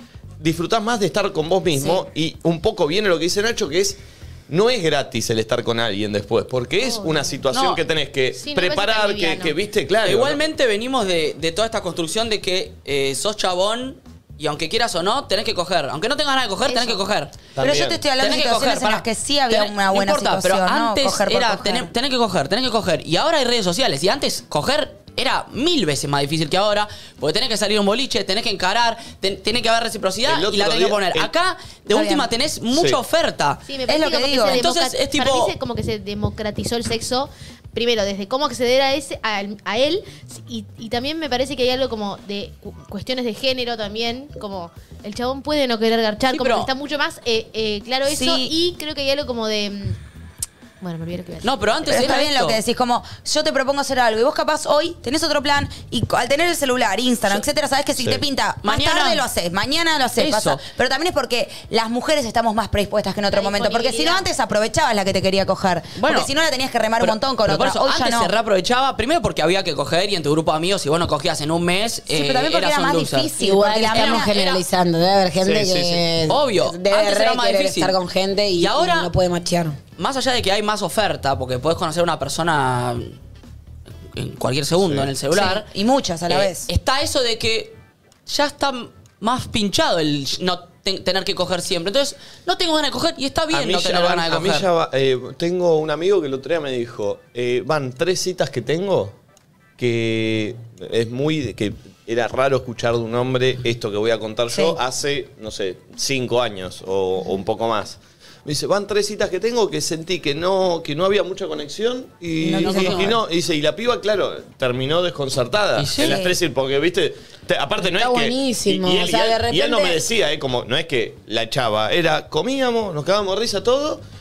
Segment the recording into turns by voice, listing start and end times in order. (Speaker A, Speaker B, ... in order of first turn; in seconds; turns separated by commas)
Speaker A: 0.4-10.4, Speaker B: 6.8-7.4, Speaker C: 7.5-7.8, Speaker B: 8.4-9.6, Speaker C: 10.0-17.3, Speaker B: 16.6-17.0, Speaker A: 17.6-18.0, Speaker D: 17.6-21.9, Speaker C: 18.2-33.6, Speaker A: 30.3-31.3, Speaker D: 31.9-32.3, Speaker A: 32.7-33.0, Speaker B: 33.6-50.0, Speaker D: 33.9-34.6, Speaker C: 34.4-35.5, Speaker C: 46.3-46.7, Speaker D: 48.1-48.5, Speaker B: 50.8-52.0, Speaker C: 51.4-52.6, Speaker D: 51.9-68.3, Speaker C: 58.6-59.2, Speaker C: 60.2-60.6, Speaker B: 63.3-64.3, Speaker C: 66.0-66.3, Speaker C: 67.0-73.3, Speaker D: 72.1-74.3, Speaker E: 73.3-79.8, Speaker C: 74.0-74.6, Speaker A: 75.4-76.0, Speaker C: 76.3-77.9, Speaker C: 78.6-79.1, Speaker C: 80.0-83.1, Speaker C: 84.1-85.7, Speaker A: 84.8-85.1, Speaker D: 85.3-86.7, Speaker C: 86.3-87.7, Speaker C: 88.3-94.7, Speaker A: 93.5-99.2, Speaker A: 99.8-124.0, Speaker D: 104.5-104.8, Speaker D: 112.4-113.2, Speaker C: 112.6-113.2, Speaker C: 115.8-116.2, Speaker D: 116.0-116.3, Speaker E: 117.8-120.0